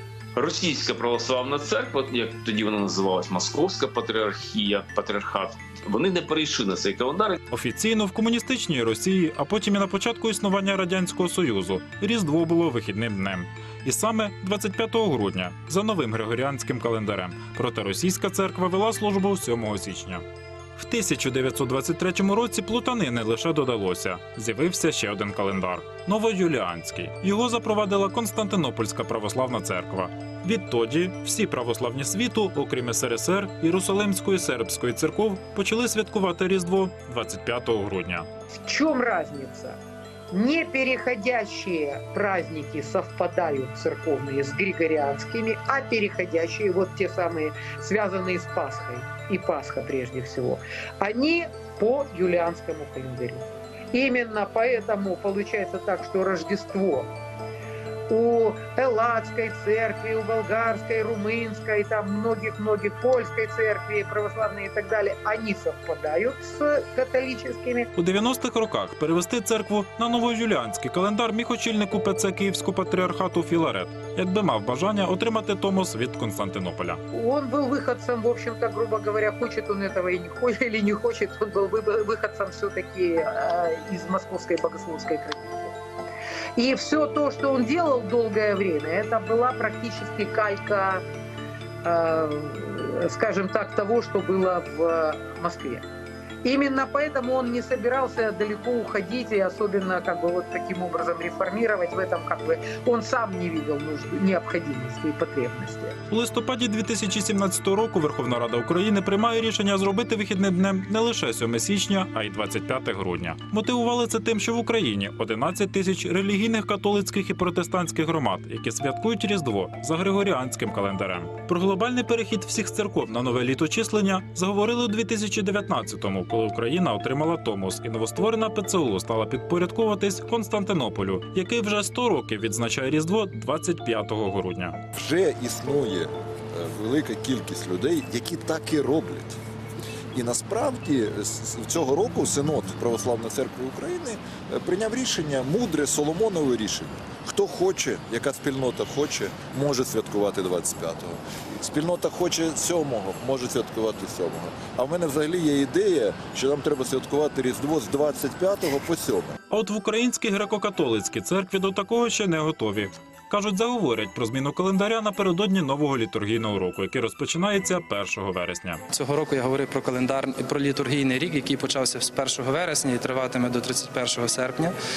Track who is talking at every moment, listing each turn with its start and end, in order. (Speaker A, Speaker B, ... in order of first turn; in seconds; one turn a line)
Speaker A: 0.3-7.4
Speaker B: 7.5-20.2
Speaker B: 20.8-38.3
Speaker C: 38.6-39.8
Speaker C: 40.3-57.1
Speaker C: 58.1-67.9
Speaker B: 68.0-77.0
Speaker C: 77.1-85.7
Speaker C: 86.6-91.0
Speaker C: 91.8-95.8
Speaker C: 96.4-106.0
Speaker B: 106.1-134.8
Speaker D: 134.9-139.4
Speaker D: 140.1-159.3
Speaker B: 159.5-168.8
Speaker E: 168.9-174.7